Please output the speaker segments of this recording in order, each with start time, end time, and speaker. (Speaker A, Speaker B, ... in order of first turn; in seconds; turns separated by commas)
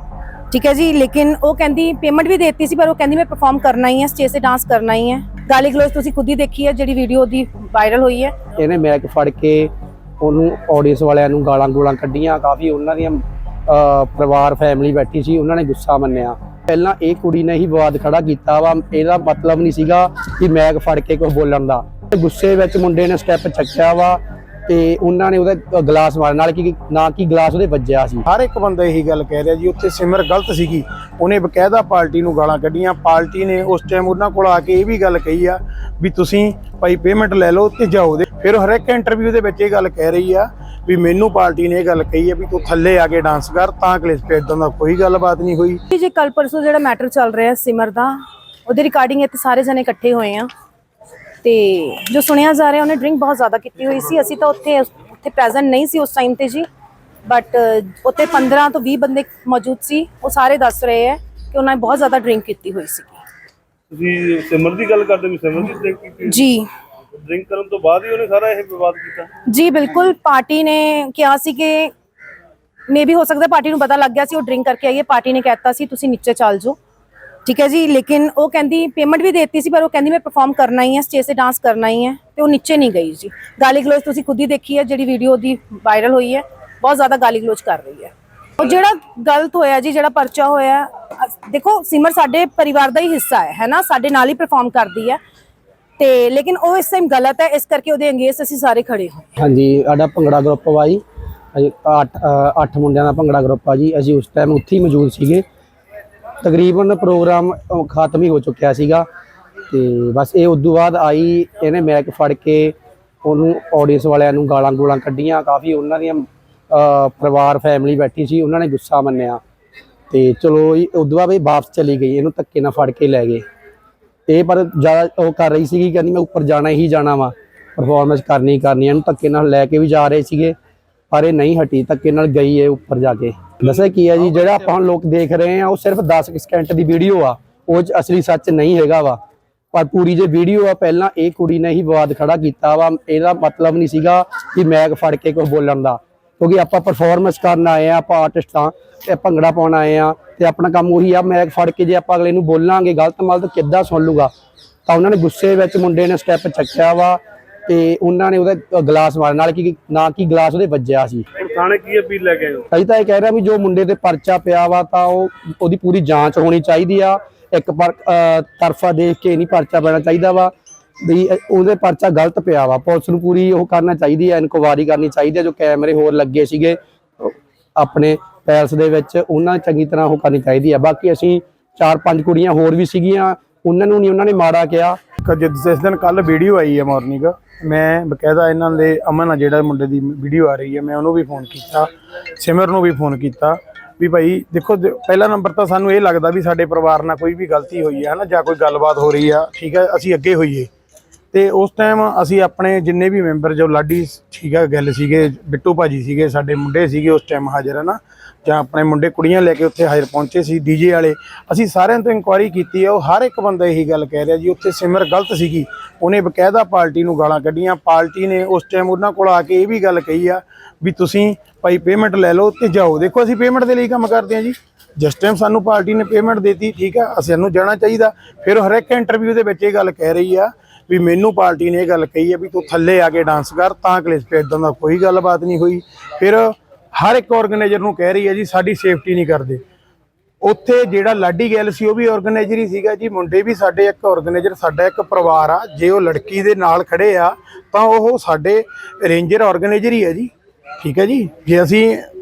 Speaker A: 0.5-8.3, Speaker B: 8.6-28.2, Speaker C: 28.3-45.8, Speaker A: 45.9-50.5, Speaker A: 51.4-56.6, Speaker A: 57.2-63.2, Speaker D: 63.9-66.4, Speaker A: 66.3-66.7, Speaker D: 67.2-69.3, Speaker A: 69.5-71.9, Speaker A: 72.9-76.8, Speaker A: 77.4-95.2, Speaker A: 96.0-99.3, Speaker B: 99.4-101.0, Speaker B: 101.5-105.4, Speaker B: 106.4-109.0, Speaker B: 109.7-119.4, Speaker B: 120.1-123.4, Speaker B: 124.3-130.5, Speaker B: 131.1-139.2, Speaker B: 139.7-154.3, Speaker B: 154.8-161.2, Speaker D: 161.4-162.7, Speaker B: 162.7-185.0, Speaker C: 185.2-200.7, Speaker C: 201.3-239.6, Speaker C: 240.4-252.1